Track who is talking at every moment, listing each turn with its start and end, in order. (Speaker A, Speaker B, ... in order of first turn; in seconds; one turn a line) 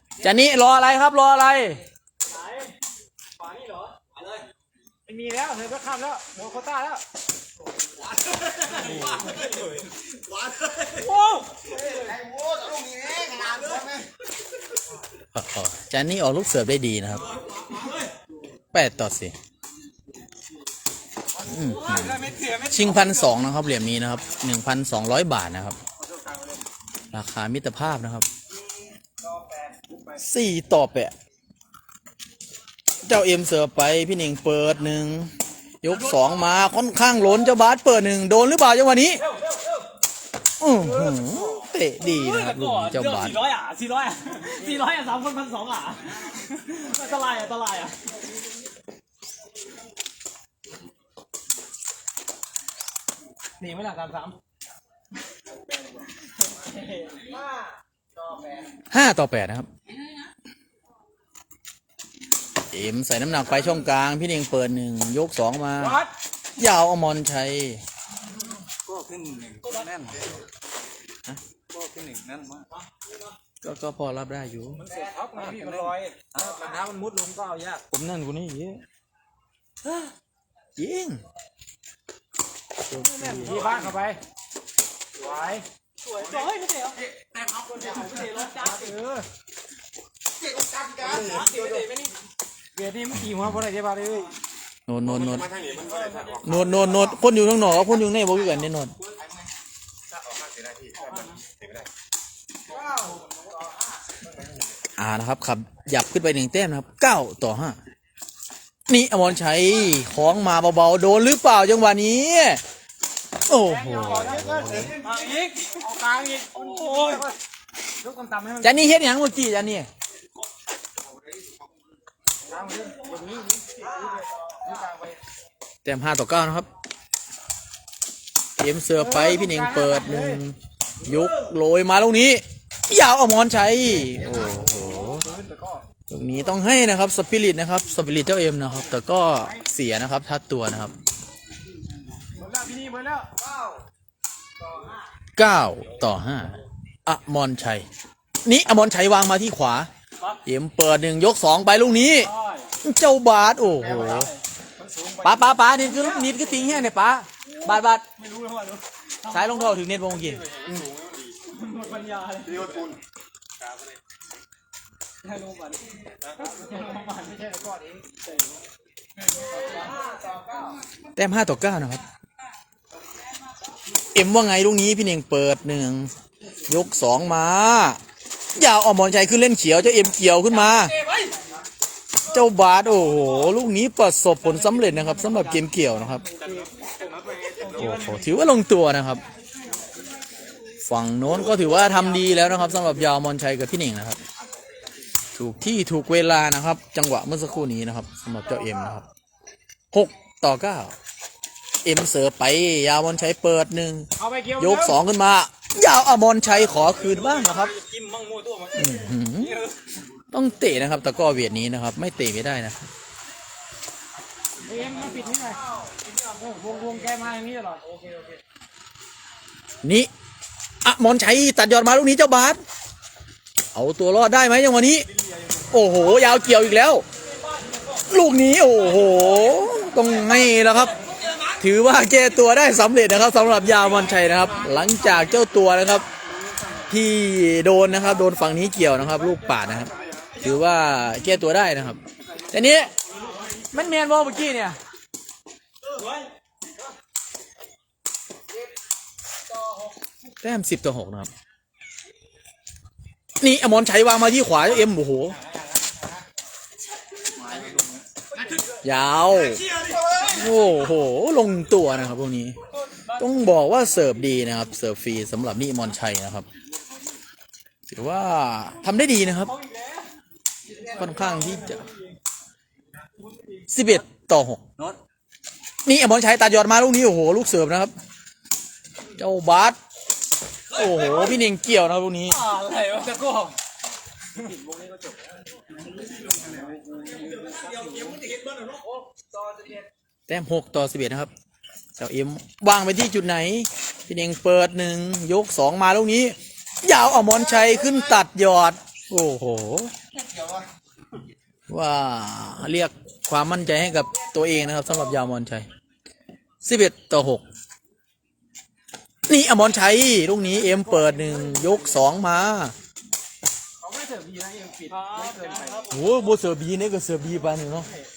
Speaker A: 0.2-1.8
Speaker B: 2.2-2.8
Speaker B: 3.4-4.0
Speaker B: 5.0-7.0
Speaker A: 8.8-9.3
Speaker B: 10.9-12.1
Speaker C: 12.0-14.1
Speaker A: 15.3-17.2
Speaker A: 18.7-19.3
Speaker A: 21.4-25.8
Speaker B: 21.6-23.2
Speaker B: 26.0-26.6
Speaker A: 27.1-28.3
Speaker B: 29.2-30.1
Speaker A: 30.2-31.1
Speaker A: 33.0-35.3
Speaker A: 35.8-39.2
Speaker B: 39.3-39.8
Speaker A: 40.6-43.4
Speaker B: 40.9-48.0
Speaker B: 53.6-54.4
Speaker B: 57.1-58.7
Speaker A: 58.9-59.7
Speaker A: 62.7-66.0
Speaker B: 65.8-66.1
Speaker A: 66.6-67.8
Speaker D: 68.8-70.4
Speaker D: 71.7-72.7
Speaker A: 73.6-74.8
Speaker B: 74.8-77.8
Speaker D: 74.9-76.7
Speaker A: 77.9-78.8
Speaker A: 80.8-81.2
Speaker A: 82.9-83.8
Speaker B: 83.2-84.2
Speaker D: 83.5-83.8
Speaker B: 85.2-89.3
Speaker C: 90.5-91.8
Speaker B: 91.0-92.1
Speaker B: 92.7-94.3
Speaker A: 93.2-93.5
Speaker A: 94.9-95.5
Speaker C: 95.2-96.6
Speaker B: 95.7-96.8
Speaker A: 96.4-98.9
Speaker C: 100.3-101.8
Speaker B: 101.0-101.4
Speaker B: 102.8-103.4
Speaker A: 105.0-107.8
Speaker A: 108.9-112.6
Speaker A: 113.5-115.0
Speaker B: 113.5-117.3
Speaker D: 116.6-117.2
Speaker B: 118.0-119.0
Speaker A: 118.6-119.9
Speaker B: 122.5-125.2
Speaker A: 125.8-126.7
Speaker A: 128.6-135.3
Speaker B: 129.0-130.4
Speaker B: 135.0-135.8
Speaker A: 136.1-140.9
Speaker B: 142.4-143.6
Speaker A: 145.4-147.9
Speaker A: 148.4-149.9
Speaker A: 150.5-154.3
Speaker B: 152.3-152.7
Speaker A: 155.2-158.0
Speaker B: 155.9-156.3
Speaker B: 158.2-159.6
Speaker A: 159.3-160.4
Speaker C: 160.6-161.2
Speaker B: 161.5-162.8
Speaker C: 162.6-162.9
Speaker B: 165.2-168.3
Speaker B: 169.5-170.6
Speaker A: 171.2-172.0
Speaker A: 174.1-176.1
Speaker A: 176.7-178.0
Speaker A: 178.5-180.9
Speaker A: 182.3-186.2
Speaker B: 186.4-188.2
Speaker A: 187.7-189.2
Speaker A: 190.8-194.2
Speaker A: 195.3-199.1
Speaker A: 199.9-200.9
Speaker A: 201.8-207.8
Speaker B: 204.2-205.0
Speaker B: 207.0-208.8
Speaker A: 208.8-209.6
Speaker A: 210.3-212.8
Speaker B: 214.6-218.2
Speaker A: 219.8-220.1
Speaker A: 220.8-222.6
Speaker A: 223.7-225.1
Speaker A: 225.7-227.0
Speaker A: 228.1-231.0
Speaker A: 231.6-236.1
Speaker A: 236.9-242.9
Speaker A: 243.7-244.8
Speaker A: 250.4-251.3
Speaker A: 253.4-255.4
Speaker D: 257.3-258.0
Speaker A: 258.8-259.7
Speaker A: 260.2-262.6
Speaker A: 263.2-266.5
Speaker A: 267.9-269.5
Speaker B: 269.5-270.0
Speaker B: 270.8-271.8
Speaker A: 270.9-271.8
Speaker A: 273.7-274.6
Speaker A: 275.9-277.9
Speaker A: 279.1-279.8
Speaker A: 280.7-282.4
Speaker B: 282.3-283.5
Speaker B: 284.4-285.1
Speaker D: 284.4-285.0
Speaker B: 287.1-289.9
Speaker D: 287.8-288.1
Speaker A: 290.3-291.3
Speaker A: 292.0-299.9
Speaker C: 300.3-300.6
Speaker A: 301.7-305.7
Speaker A: 306.6-307.4
Speaker A: 309.3-312.8
Speaker B: 310.8-311.7
Speaker B: 313.8-316.0
Speaker D: 315.2-315.7
Speaker A: 315.9-317.9